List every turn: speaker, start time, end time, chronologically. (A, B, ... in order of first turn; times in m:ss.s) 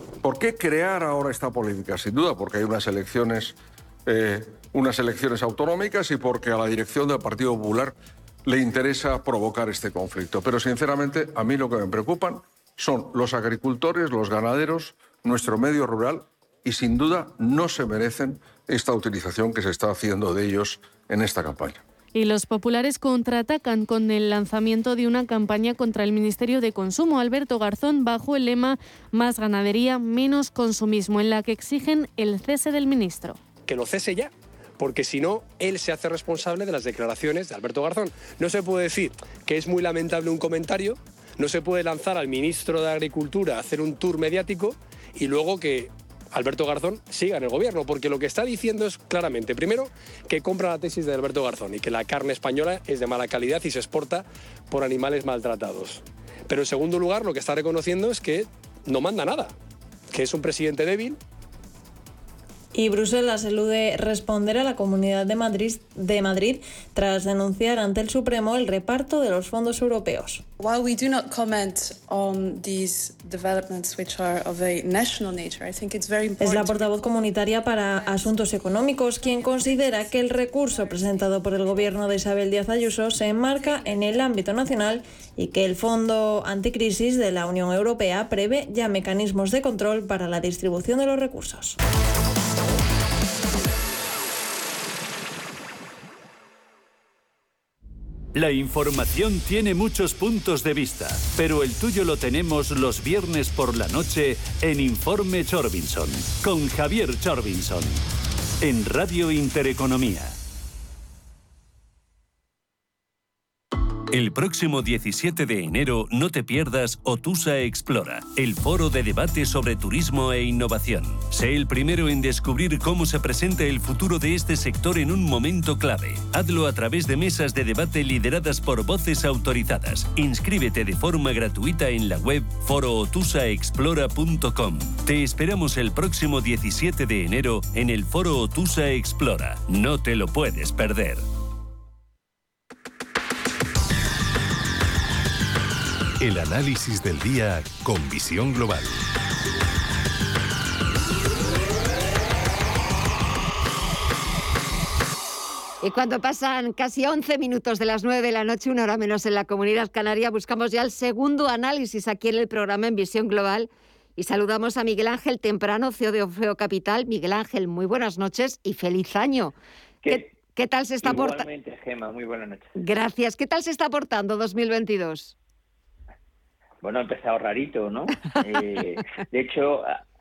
0:00.2-0:21.8 A
0:22.1-0:33.4 B
0:33.6-0:59.5 C
1:00.1-1:01.2 C
1:02.7-1:10.4 D
1:10.6-1:16.8 E
1:16.4-1:31.8 D
1:38.3-1:48.0 F
1:48.6-1:50.4 F
1:54.1-2:21.2 F
2:26.2-2:28.9 G
2:35.8-2:49.6 H
2:50.1-2:51.4 H
2:51.0-2:52.7 I
2:52.8-2:55.3 H
2:56.8-3:00.0 I